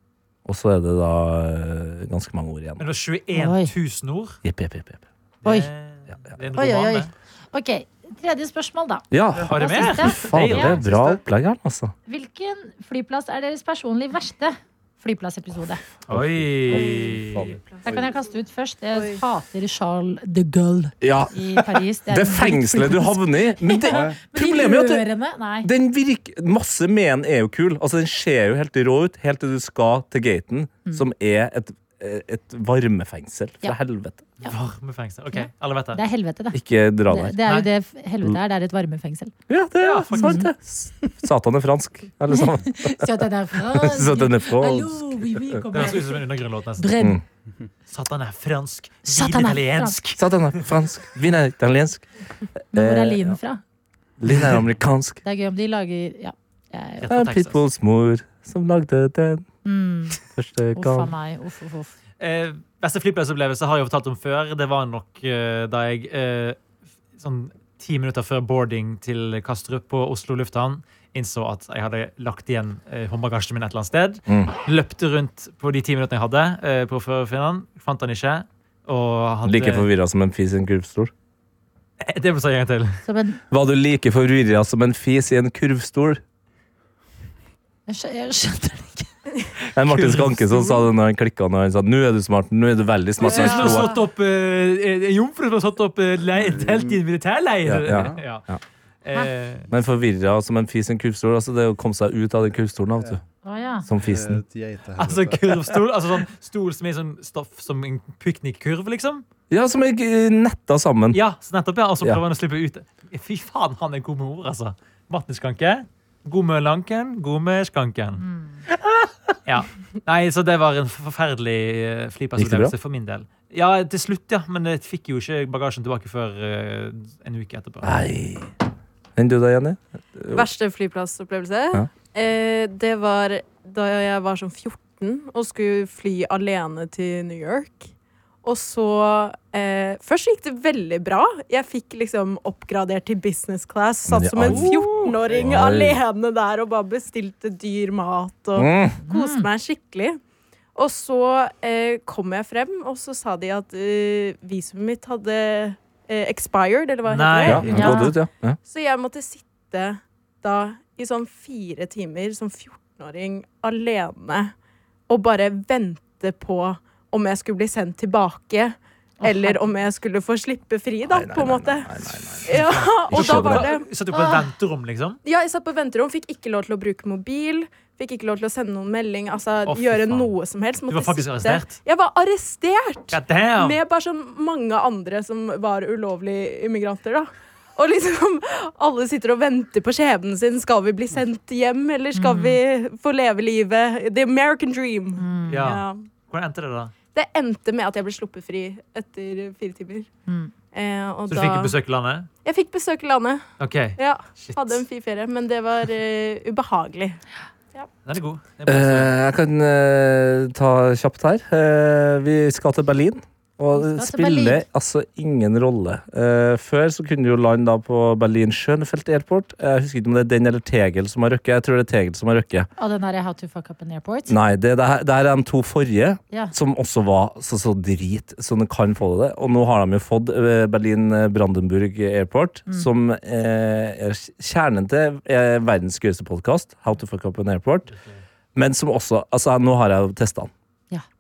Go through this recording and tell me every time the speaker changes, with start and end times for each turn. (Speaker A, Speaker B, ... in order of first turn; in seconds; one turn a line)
Speaker A: 0.5-2.9
Speaker B: 2.8-4.4
Speaker C: 3.3-3.7
Speaker A: 4.4-5.0
Speaker B: 5.4-7.1
Speaker C: 6.5-10.8
Speaker A: 9.1-11.9
Speaker B: 9.5-10.9
Speaker D: 10.9-11.2
Speaker C: 12.1-15.8
Speaker A: 16.1-17.6
Speaker B: 16.1-17.5
Speaker E: 16.7-18.1
Speaker C: 17.8-25.7
Speaker E: 18.9-19.2
Speaker A: 21.0-21.3
Speaker A: 22.1-25.1
Speaker D: 23.9-24.2
Speaker A: 25.6-34.2
Speaker B: 34.4-36.0
Speaker C: 35.3-39.3
Speaker A: 36.5-37.4
Speaker A: 39.5-45.7
Speaker B: 39.8-40.5
Speaker C: 40.1-40.5
Speaker C: 42.3-47.2
Speaker B: 45.7-47.0
Speaker B: 47.9-50.2
Speaker C: 49.1-50.0
Speaker A: 50.2-52.1
Speaker A: 52.7-53.4
Speaker C: 52.7-53.6
Speaker A: 54.2-55.2
Speaker C: 55.2-57.1
Speaker B: 57.0-57.6
Speaker A: 57.1-59.5
Speaker C: 59.6-60.2
Speaker A: 60.3-61.1
Speaker C: 60.8-61.9
Speaker B: 62.2-66.6
Speaker B: 67.2-79.9
Speaker A: 74.3-74.5
Speaker A: 79.4-81.1
Speaker B: 82.0-83.0
Speaker C: 83.0-83.4
Speaker A: 83.5-86.2
Speaker C: 87.9-89.1
Speaker B: 89.7-90.9
Speaker A: 89.7-93.9
Speaker B: 93.2-98.5
Speaker C: 93.2-94.0
Speaker D: 96.4-97.0
Speaker A: 97.7-98.6
Speaker D: 97.9-98.2
Speaker B: 99.0-99.7
Speaker A: 99.7-103.2
Speaker C: 103.4-103.9
Speaker A: 103.9-104.4
Speaker D: 104.0-105.7
Speaker B: 105.0-109.2
Speaker A: 109.5-111.2
Speaker B: 111.1-118.2
Speaker C: 118.2-118.6
Speaker B: 119.5-127.9
Speaker A: 122.4-122.7
Speaker A: 127.8-128.5
Speaker A: 129.2-130.5
Speaker E: 130.3-137.9
Speaker E: 138.4-150.2
Speaker A: 144.1-146.0
Speaker D: 144.9-145.4
Speaker A: 148.6-149.0
Speaker C: 149.0-149.5
Speaker E: 150.8-157.8
Speaker B: 157.1-158.1
Speaker A: 157.4-158.6
Speaker C: 157.7-158.2
Speaker E: 158.7-164.5
Speaker E: 165.1-173.9
Speaker C: 169.2-169.6
Speaker A: 171.1-173.7
Speaker B: 172.5-175.2
Speaker C: 174.1-174.4
Speaker E: 175.2-196.1
Speaker B: 179.7-180.3
Speaker B: 180.9-181.8
Speaker B: 183.1-183.8
Speaker C: 192.2-192.6
Speaker C: 195.2-195.8
Speaker B: 195.5-196.9
Speaker E: 197.1-200.1
Speaker C: 200.3-200.5
Speaker E: 200.7-201.8
Speaker B: 201.3-202.3
Speaker E: 202.4-203.4
Speaker B: 203.6-204.8
Speaker E: 204.0-207.2
Speaker B: 208.1-209.1
Speaker A: 208.7-222.7
Speaker C: 213.7-214.6
Speaker C: 222.8-224.4
Speaker A: 224.3-237.9
Speaker B: 237.9-238.2
Speaker A: 238.6-240.5